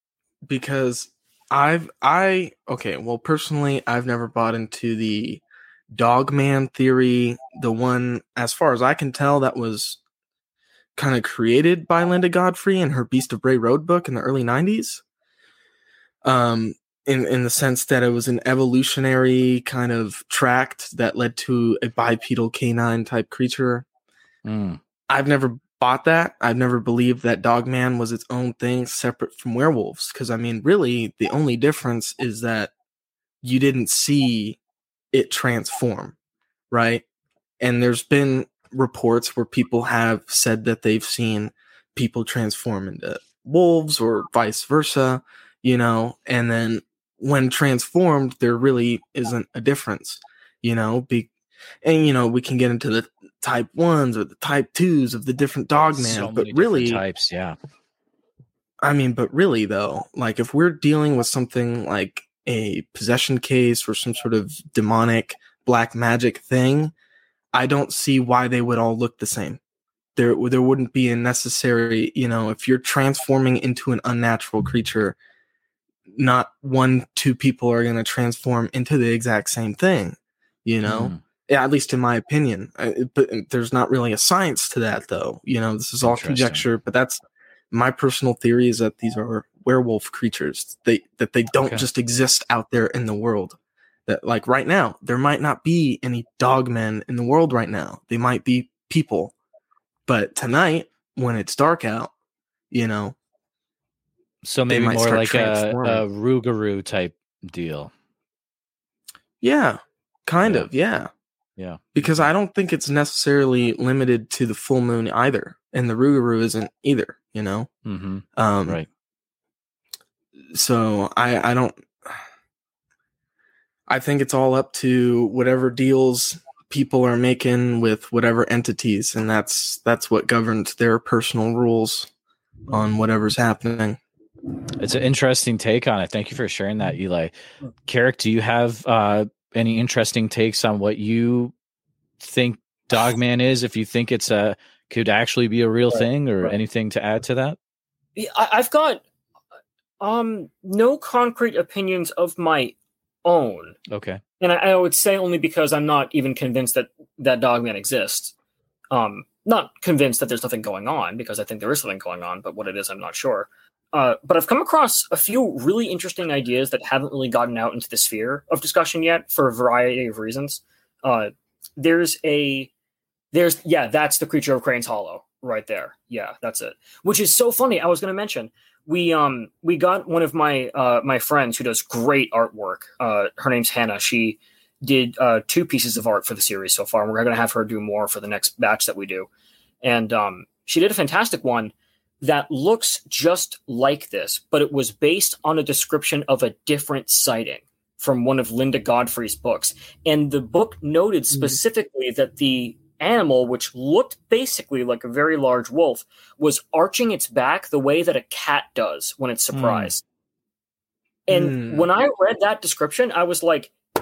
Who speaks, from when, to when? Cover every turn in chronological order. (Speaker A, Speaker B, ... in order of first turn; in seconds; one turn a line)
Speaker A: 0.5-10.0
Speaker A: 11.0-15.0
Speaker A: 16.2-23.9
Speaker B: 24.4-24.8
Speaker A: 25.1-32.7
Speaker A: 33.4-34.6
Speaker A: 35.1-36.1
Speaker A: 36.7-37.0
Speaker A: 37.6-51.3
Speaker A: 51.8-57.0
Speaker B: 55.7-57.6
Speaker A: 58.8-66.9
Speaker A: 67.5-69.6
Speaker A: 70.2-75.2
Speaker A: 76.1-99.3
Speaker B: 80.9-81.2
Speaker B: 86.0-86.6
Speaker A: 100.1-102.1
Speaker A: 102.7-103.2
Speaker B: 104.4-107.9
Speaker A: 104.7-106.0
Speaker A: 109.4-111.1
Speaker B: 111.6-112.3
Speaker A: 112.0-117.7
Speaker B: 117.9-118.9
Speaker A: 118.4-118.8
Speaker A: 120.5-122.2
Speaker A: 123.9-132.1
Speaker A: 132.7-134.0
Speaker B: 134.8-137.3
Speaker B: 137.9-141.5
Speaker B: 142.2-147.6
Speaker C: 145.9-146.6
Speaker C: 148.2-149.0
Speaker C: 150.0-153.8
Speaker B: 153.9-154.2
Speaker C: 154.4-158.3
Speaker C: 158.9-172.7
Speaker C: 173.3-189.3
Speaker C: 189.8-210.0
Speaker B: 209.5-209.9
Speaker C: 211.3-213.7
Speaker A: 211.3-211.9